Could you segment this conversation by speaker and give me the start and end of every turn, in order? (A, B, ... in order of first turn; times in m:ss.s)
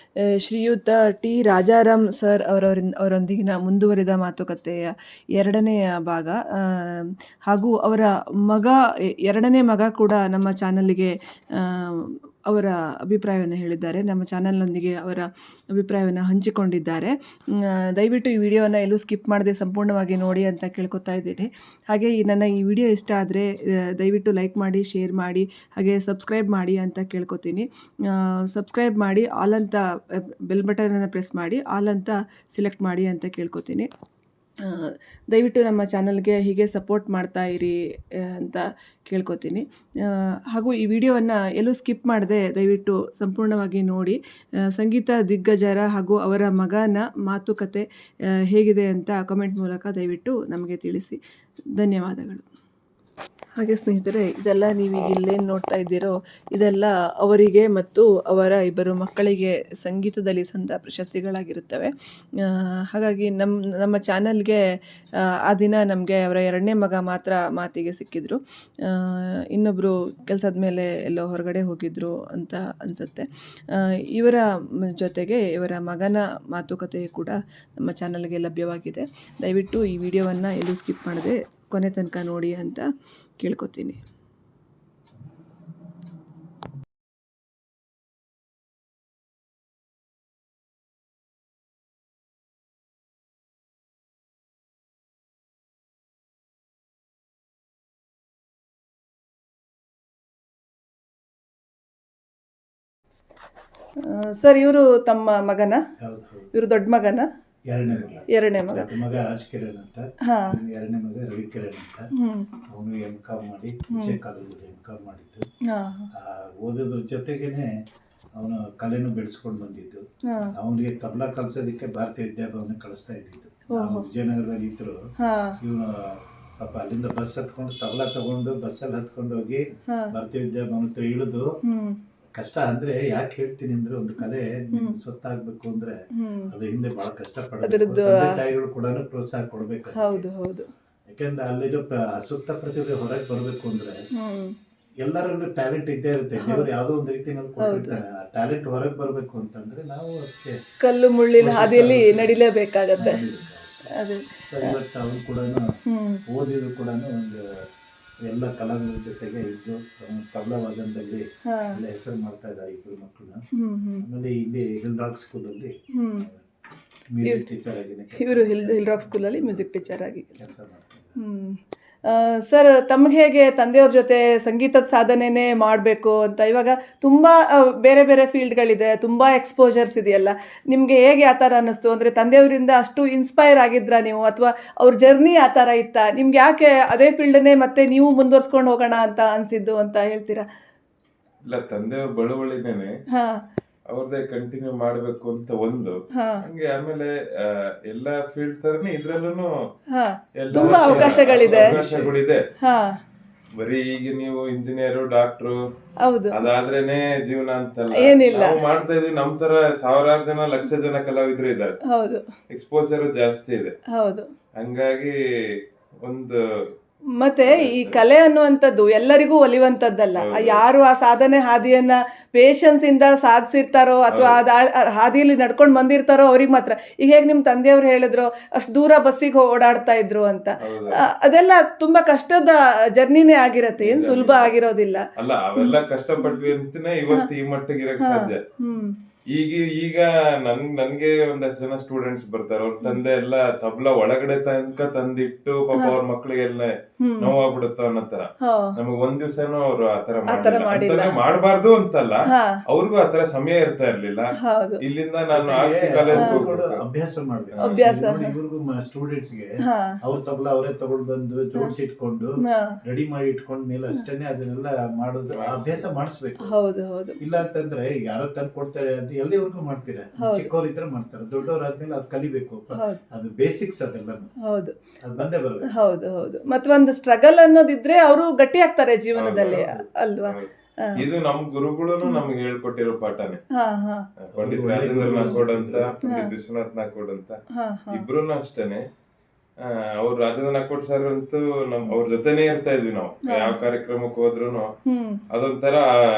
0:00.4-0:33.9 A
0:34.6-0:44.2 A
0:44.7-0:47.8 A
0:48.5-0:51.2 A
0:51.8-0:52.4 A
0:53.6-1:04.6 A
1:05.5-1:14.4 A
1:15.0-1:22.9 A
1:23.4-1:24.0 A
1:44.1-1:45.8 A
1:46.0-1:46.5 B
1:46.5-1:47.3 A
1:47.7-1:52.0 B
1:48.3-1:48.9 A
1:50.3-1:50.6 A
1:52.2-1:52.5 A
1:52.7-1:55.4 B
1:55.7-1:56.1 A
1:56.2-1:57.7 B
1:58.4-2:00.0 B
2:00.3-2:00.5 A
2:00.5-2:05.0 B
2:03.8-2:04.1 A
2:05.2-2:05.6 A
2:05.6-2:11.5 B
2:11.6-2:12.0 A
2:12.4-2:16.0 B
2:16.2-2:16.5 A
2:16.5-2:20.3 B
2:17.6-2:18.4 A
2:20.0-2:20.7 A
2:21.1-2:23.9 B
2:24.2-2:24.6 A
2:25.0-2:30.6 B
2:26.4-2:26.7 A
2:27.6-2:28.0 A
2:30.8-2:33.2 A
2:31.4-2:32.4 B
2:33.0-2:33.8 B
2:34.0-2:34.7 A
2:34.4-2:35.7 B
2:35.9-2:36.2 A
2:36.3-2:37.5 B
2:38.3-2:43.4 B
2:41.5-2:41.8 A
2:43.6-2:44.1 A
2:44.0-2:46.4 B
2:46.0-2:46.3 A
2:47.1-2:51.2 B
2:48.2-2:50.4 A
2:51.2-3:10.5 A
3:11.5-3:12.9 C
3:13.1-3:13.4 A
3:13.9-3:17.1 C
3:16.1-3:16.4 A
3:17.9-3:19.5 C
3:19.9-3:21.8 A
3:20.4-3:22.4 C
3:20.5-3:22.1 B
3:22.6-3:23.0 A
3:23.6-3:25.6 C
3:26.0-3:26.4 A
3:26.3-3:31.8 C
3:28.0-3:28.6 A
3:31.9-3:32.3 A
3:32.5-3:33.7 C
3:33.9-3:34.3 A
3:34.6-3:35.1 C
3:36.0-3:36.3 C
3:37.2-3:55.0 A
3:37.4-3:38.0 C
3:40.2-3:40.6 C
3:44.1-3:44.4 C
3:50.6-3:51.0 C
3:53.8-3:54.5 C
3:55.2-3:58.4 C
3:55.6-3:56.5 A
3:58.0-3:59.0 A
3:59.3-4:14.3 C
4:07.0-4:07.3 A
4:08.4-4:08.8 A
4:10.3-4:11.2 A
4:12.3-4:12.6 A
4:14.4-4:14.8 A
4:14.8-4:16.8 C
4:15.3-4:19.5 B
4:16.1-4:16.4 A
4:17.6-4:17.8 C
4:17.6-4:18.3 A
4:19.7-4:20.0 A
4:20.0-4:22.3 B
4:22.5-4:22.8 A
4:22.8-4:26.5 B
4:25.3-4:25.9 C
4:26.4-4:27.2 A
4:27.2-4:34.3 B
4:30.2-4:30.5 A
4:34.5-4:34.7 A
4:35.0-4:35.7 B
4:35.7-4:41.0 A
4:39.2-4:39.7 C
4:40.3-4:43.4 C
4:43.6-4:44.0 A
4:44.2-4:47.4 C
4:44.4-4:46.0 B
4:45.1-4:45.4 A
4:46.0-4:46.3 A
4:47.6-4:48.0 A
4:47.9-4:48.8 C
4:49.6-4:54.7 C
4:53.3-4:53.6 A
4:54.9-4:55.2 A
4:55.3-4:55.8 C